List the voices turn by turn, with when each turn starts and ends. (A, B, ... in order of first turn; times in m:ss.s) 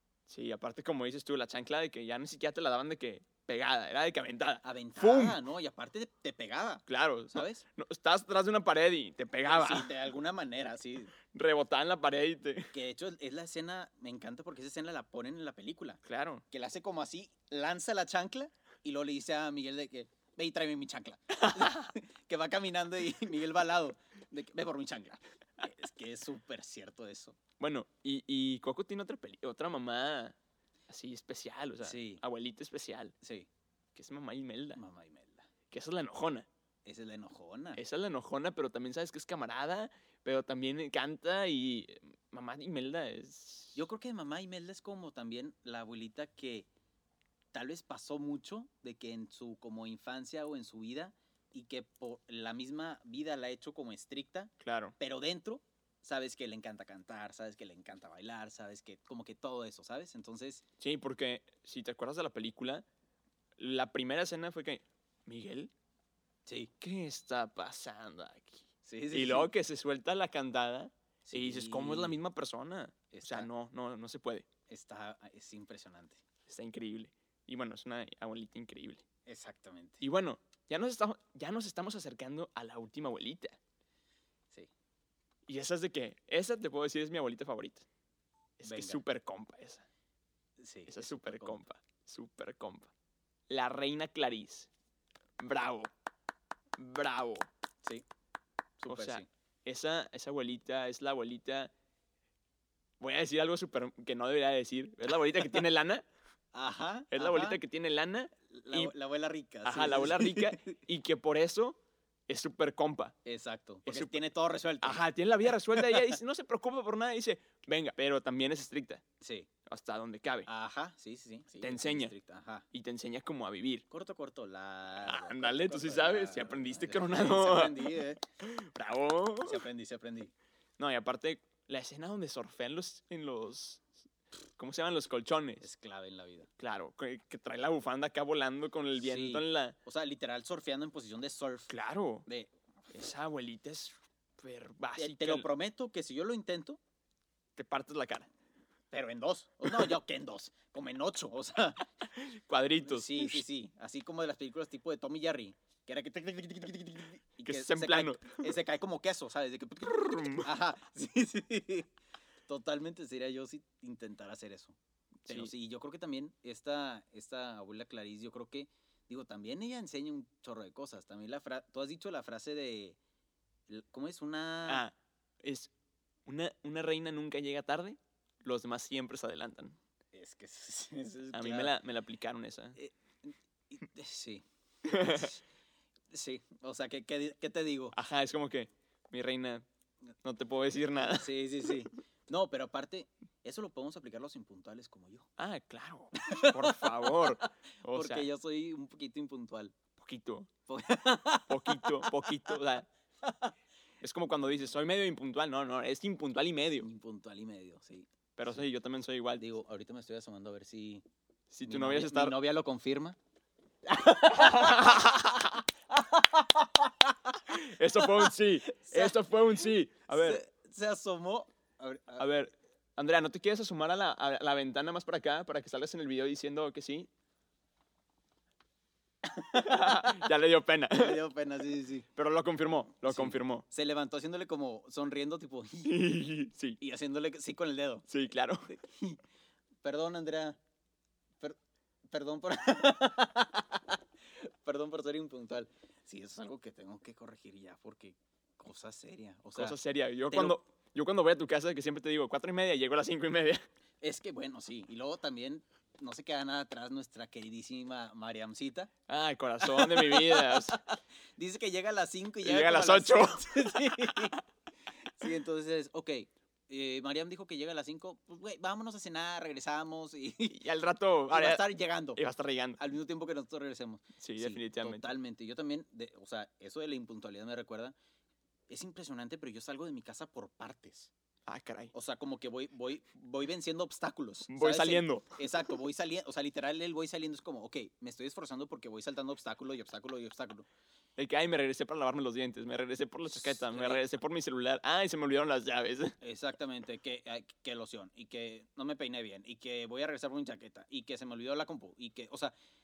0:00.3-0:05.4 A
0:04.6-0:07.6 B
0:06.9-0:09.9 A
0:09.4-0:11.1 B
0:11.3-0:12.7 A
0:12.7-0:27.4 B
0:16.0-0:16.4 A
0:21.4-0:21.8 A
0:27.6-0:30.4 A
0:30.9-0:33.1 A
0:31.8-0:32.2 B
0:33.2-0:33.5 B
0:33.9-0:34.8 A
0:34.8-0:35.4 B
0:35.7-0:36.5 A
0:36.8-0:37.8 B
0:37.7-0:43.8 A
0:43.7-0:46.7 B
0:47.5-1:00.6 B
0:54.6-0:54.9 A
1:00.8-1:02.8 A
1:03.6-1:05.7 A
1:06.4-1:06.7 B
1:06.8-1:14.5 A
1:08.8-1:09.5 B
1:11.2-1:12.2 B
1:13.1-1:13.5 B
1:14.7-1:16.2 B
1:16.5-1:19.0 A
1:19.2-1:20.0 B
1:20.0-1:23.6 A
1:25.5-1:27.8 A
1:28.6-1:29.8 A
1:28.6-1:29.0 B
1:30.6-1:31.6 B
1:30.9-1:32.9 A
1:33.5-1:34.7 A
1:35.4-1:35.9 A
1:36.8-1:37.5 A
1:38.8-1:39.3 B
1:38.9-1:41.7 A
1:43.0-1:46.0 A
1:46.5-1:47.6 B
1:47.1-1:48.9 A
1:48.5-1:50.8 B
1:49.6-1:53.1 A
1:53.2-1:55.0 B
1:53.8-1:54.2 A
1:54.8-1:59.0 A
1:55.7-1:56.1 B
1:59.2-1:59.5 B
1:59.7-2:00.5 A
2:00.5-2:02.6 B
2:01.6-2:02.1 A
2:02.7-2:03.8 A
2:03.9-2:08.2 B
2:05.0-2:09.6 A
2:09.4-2:10.3 B
2:10.8-2:13.8 A
2:14.6-2:15.6 A
2:15.6-2:16.5 B
2:16.6-2:19.8 A
2:19.0-2:21.7 B
2:21.7-2:22.2 A
2:22.9-2:25.5 A
2:25.0-2:26.8 B
2:27.6-2:28.3 A
2:28.9-2:31.9 B
2:32.1-2:33.4 A
2:32.8-2:41.9 B
2:37.4-2:38.5 A
2:39.8-2:40.5 A
2:42.5-2:53.0 B
2:45.2-2:45.5 A
2:53.7-2:54.8 B
2:54.7-2:55.7 A
2:56.2-2:59.8 A
3:00.1-3:01.7 B
3:01.3-3:02.8 A
3:02.8-3:04.4 B
3:04.8-3:05.3 A
3:05.0-3:05.3 B
3:06.1-3:08.0 B
3:07.9-3:09.6 A
3:10.2-3:11.7 A
3:11.1-3:15.3 B
3:15.4-3:18.3 A
3:16.2-3:19.7 B
3:20.0-3:20.5 A
3:20.7-3:22.5 B
3:21.5-3:22.9 A
3:23.2-3:23.5 B
3:24.0-3:26.9 A
3:26.8-3:28.6 B
3:28.4-3:29.4 A
3:29.4-3:31.0 B
3:31.5-3:32.3 A
3:31.6-3:33.2 B
3:33.8-3:37.4 B
3:34.3-3:35.6 A
3:37.5-3:40.4 A
3:38.0-3:39.2 B
3:40.1-3:42.2 B
3:42.2-3:47.1 A
3:49.2-3:50.2 B
3:49.5-3:51.2 A
3:50.9-3:52.1 B
3:52.2-3:53.6 A
3:53.0-3:56.1 B
3:55.8-3:56.8 A
3:56.8-3:58.1 B
3:58.1-3:58.7 A
3:58.7-3:59.2 B
3:59.8-4:00.6 B
4:02.1-4:09.8 B
4:09.5-4:13.6 A
4:10.3-4:10.6 B
4:14.0-4:18.9 B
4:19.1-4:20.8 A
4:19.7-4:24.4 B
4:22.4-4:24.3 A
4:25.2-4:30.6 B
4:30.5-4:31.6 A
4:31.3-4:32.2 B
4:32.2-4:32.8 A
4:32.8-4:37.9 B
4:34.2-4:35.1 A
4:38.7-4:41.1 B
4:41.5-4:41.9 A
4:41.9-4:50.6 B
4:44.5-4:45.4 A
4:51.2-4:56.2 A
4:53.3-4:54.0 B
4:56.2-5:02.5 B